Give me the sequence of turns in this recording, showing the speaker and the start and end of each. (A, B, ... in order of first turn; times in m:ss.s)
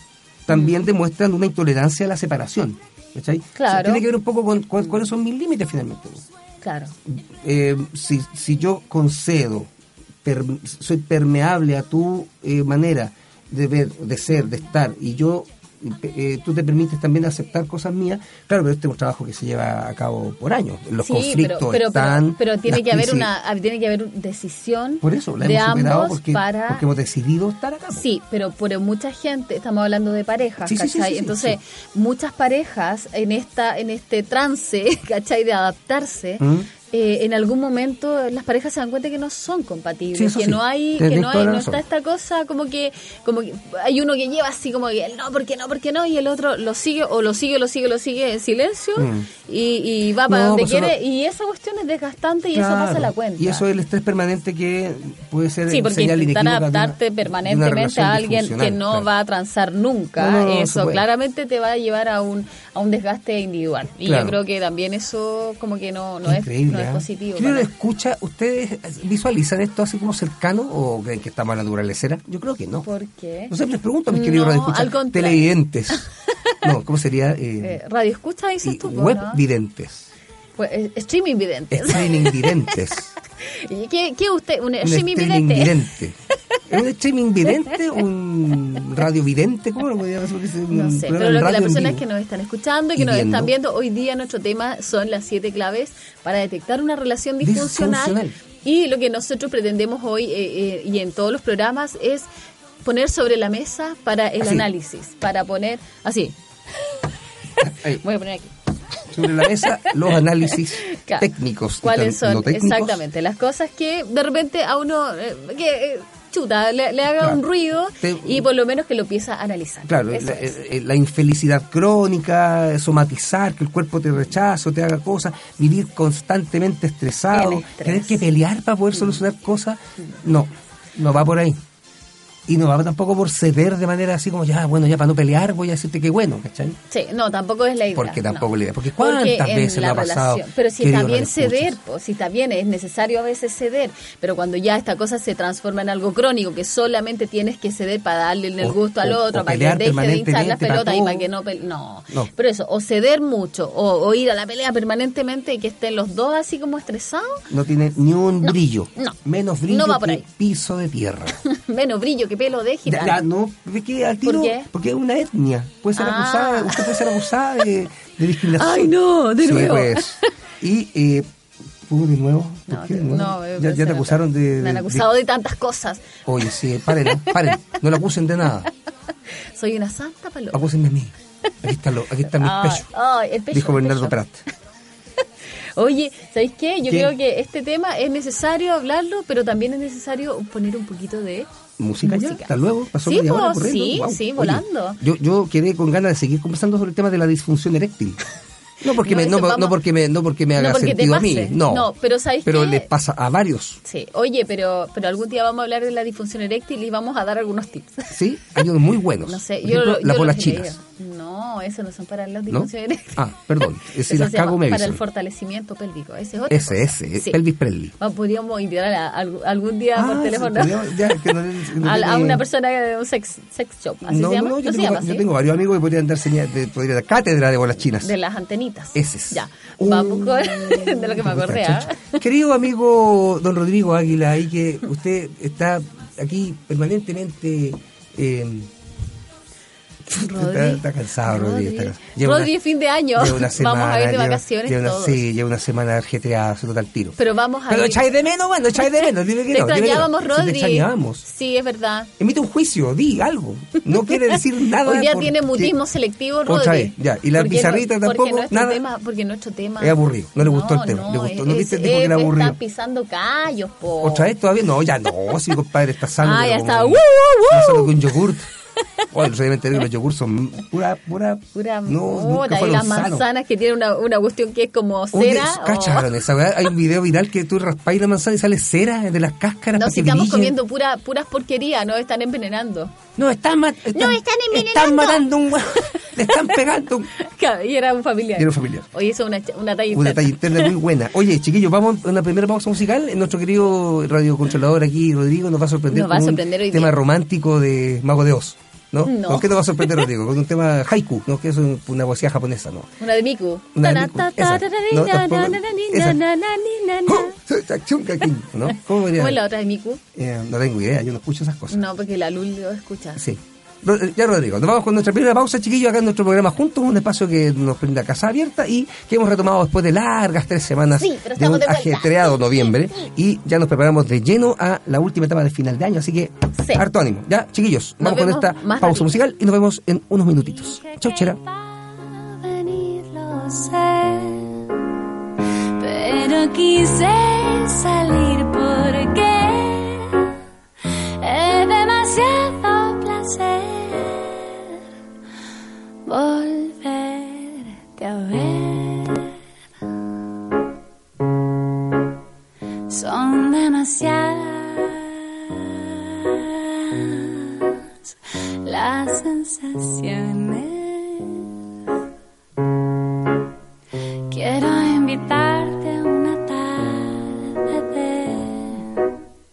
0:00.5-0:06.3 A
0:03.6-0:04.0 B
0:06.6-0:07.0 B
0:07.1-0:09.7 A
0:10.2-0:23.3 A
0:21.0-0:26.8 B
0:25.0-0:28.1 A
0:27.9-0:53.6 B
0:30.6-0:31.6 A
0:36.4-0:36.7 A
0:40.1-0:41.8 A
0:49.0-0:49.3 A
0:50.3-0:51.0 A
0:52.5-0:59.1 A
0:55.7-1:07.7 B
1:00.2-1:01.0 A
1:04.0-1:04.4 A
1:06.2-1:12.9 A
1:12.8-1:13.5 B
1:13.5-1:16.1 A
1:14.1-1:16.0 B
1:16.6-1:17.8 A
1:17.6-1:19.4 B
1:18.6-1:20.1 A
1:20.6-1:22.7 B
1:21.7-1:23.1 A
1:23.4-1:25.8 B
1:24.8-1:26.2 A
1:26.7-1:32.0 A
1:30.7-1:42.3 B
1:33.0-1:33.5 A
1:37.4-1:38.4 A
1:42.8-1:47.1 B
1:44.4-1:44.7 A
1:47.6-1:48.0 A
1:47.8-1:51.3 B
1:49.1-1:53.0 A
1:51.8-2:00.6 B
1:58.0-1:58.4 A
1:59.9-2:11.6 A
2:07.3-2:08.2 B
2:12.5-2:16.8 A
2:16.9-2:18.5 B
2:18.0-2:21.8 A
2:19.0-2:37.5 B
2:28.6-2:31.3 A
2:37.5-2:41.4 A
2:39.7-2:40.2 B
2:41.3-2:43.2 B
2:42.9-2:51.3 A
2:44.2-2:44.7 B
2:46.0-2:47.3 B
2:48.4-2:50.3 B
2:51.8-2:55.1 A
2:52.7-2:56.2 B
2:56.3-2:58.7 A
2:57.0-2:57.6 B
2:59.5-3:00.6 B
3:00.5-3:02.9 A
3:02.3-3:04.2 B
3:03.5-3:04.4 A
3:05.8-3:11.5 B
3:06.9-3:07.1 A
3:11.8-3:18.2 A
3:12.0-3:12.5 B
3:13.0-3:15.0 B
3:18.8-3:21.9 A
3:18.9-3:19.8 B
3:20.6-3:22.9 B
3:22.4-3:23.8 A
3:23.8-3:28.6 B
3:28.1-3:30.8 A
3:29.2-3:33.3 B
3:32.5-3:35.0 A
3:33.9-3:37.4 B
3:36.5-3:37.9 A
3:38.0-3:41.0 B
3:40.0-3:42.4 A
3:41.8-3:45.2 B
3:44.0-3:48.1 A
3:48.0-3:52.2 B
3:49.0-3:58.7 A
4:00.1-4:02.6 A
4:00.1-4:05.2 B
4:03.2-4:07.2 A
4:07.2-4:08.1 B
4:07.7-4:11.2 A
4:08.8-4:12.1 B
4:12.2-4:15.8 A
4:14.1-4:24.3 B
4:16.5-4:18.8 A
4:19.8-4:22.6 A
4:24.0-4:28.5 A
4:26.2-4:28.0 B
4:29.1-4:33.2 A
4:31.6-4:36.1 B
4:35.1-4:40.6 A
4:39.8-4:43.0 B
4:43.2-4:47.1 A
4:43.9-4:46.5 B
4:47.2-4:50.8 B
4:48.4-4:48.9 A
4:49.9-5:02.9 A
4:55.9-4:56.9 B
4:59.0-5:00.1 B
5:03.0-5:07.4 B
5:03.8-5:06.2 A
5:07.1-5:09.4 A
5:09.1-5:10.0 B
5:10.2-5:11.8 A
5:11.7-5:13.2 B
5:13.2-5:31.4 A
5:21.0-5:23.1 B
5:26.6-5:26.8 B
5:28.0-5:29.2 B
5:30.5-5:34.8 C
5:35.4-5:40.3 C
5:40.8-5:44.8 C
5:46.0-5:49.3 C
5:52.9-6:01.6 C
6:04.3-6:09.0 C